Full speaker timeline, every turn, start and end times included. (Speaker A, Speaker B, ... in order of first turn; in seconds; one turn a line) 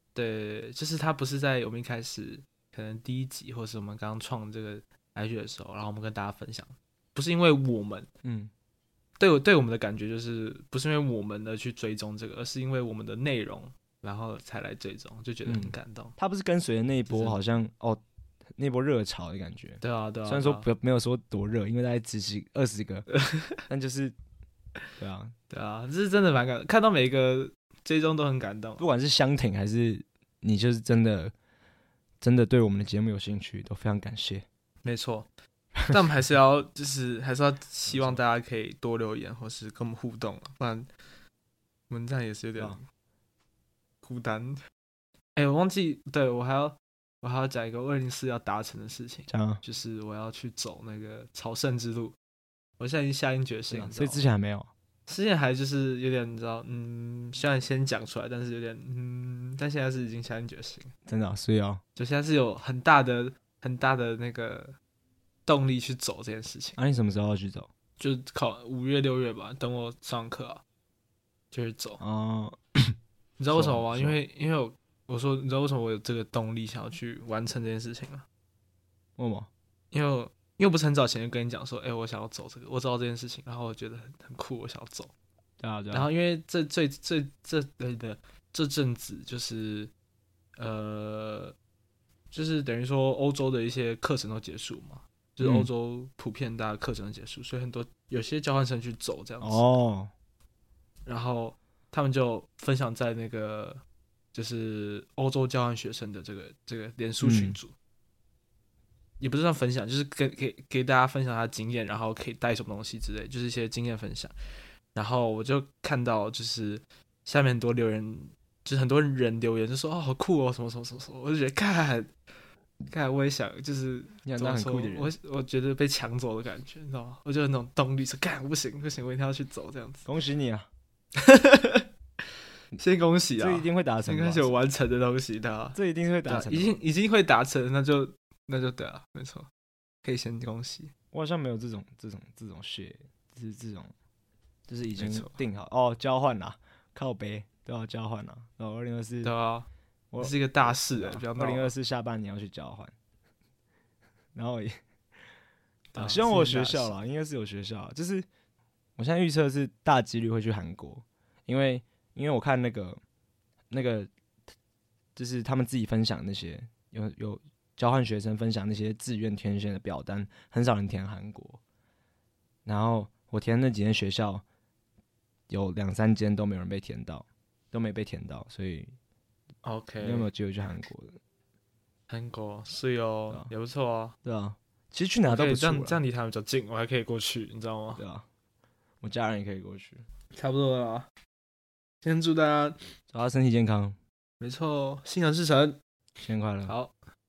Speaker A: 0.1-8.1
Speaker B: 8.2-8.5
Speaker A: 9.2-16.1
Speaker B: 15.4-18.0
Speaker A: 17.1-17.4
Speaker B: 18.6-23.1
Speaker A: 19.8-20.7
Speaker A: 23.1-23.6
Speaker B: 23.6-24.1
Speaker B: 25.0-25.3
Speaker A: 25.5-28.8
Speaker B: 28.8-31.3
Speaker B: 32.2-34.5
Speaker A: 34.8-35.3
Speaker A: 35.9-40.9
Speaker B: 37.9-38.2
Speaker A: 41.9-42.9
Speaker A: 44.0-44.6
Speaker A: 45.4-52.2
Speaker B: 49.3-49.6
Speaker A: 52.8-54.2
Speaker B: 53.7-54.7
Speaker A: 55.1-60.9
Speaker B: 61.0-61.8
Speaker A: 62.0-64.8
Speaker A: 65.5-66.8
Speaker B: 66.8-67.7
Speaker A: 68.0-70.6
Speaker A: 71.5-72.0
Speaker B: 72.0-73.0
Speaker A: 73.4-78.2
Speaker B: 73.5-74.2
Speaker B: 79.2-79.5
Speaker A: 79.9-85.1
Speaker B: 85.6-86.1
Speaker A: 85.9-89.9
Speaker A: 90.6-91.5
Speaker A: 92.3-99.7
Speaker B: 95.4-95.7
Speaker B: 99.4-100.1
Speaker A: 101.1-103.8
Speaker A: 104.3-107.7
Speaker B: 107.2-107.6
Speaker A: 109.2-114.3
Speaker A: 115.0-122.1
Speaker A: 122.9-130.1
Speaker B: 124.2-125.1
Speaker B: 130.1-130.7
Speaker A: 131.2-131.9
Speaker A: 132.8-139.5
Speaker B: 133.4-134.5
Speaker B: 135.7-136.8
Speaker A: 140.0-140.9
Speaker B: 141.1-143.9
Speaker B: 144.7-149.3
Speaker A: 145.0-145.4
Speaker A: 149.2-149.7
Speaker B: 150.1-152.9
Speaker A: 150.2-151.7
Speaker B: 154.3-154.8
Speaker A: 155.9-157.0
Speaker B: 156.0-158.3
Speaker B: 159.0-163.0
Speaker B: 163.7-164.1
Speaker B: 165.2-171.6
Speaker B: 172.7-174.4
Speaker B: 175.5-178.9
Speaker A: 179.6-180.3
Speaker B: 180.0-181.2
Speaker A: 182.1-184.2
Speaker B: 184.2-186.0
Speaker A: 185.3-188.0
Speaker B: 188.0-188.2
Speaker B: 189.0-190.1
Speaker A: 190.3-191.1
Speaker A: 192.0-192.9
Speaker B: 193.1-194.0
Speaker A: 194.4-195.8
Speaker B: 196.2-196.7
Speaker A: 196.7-196.9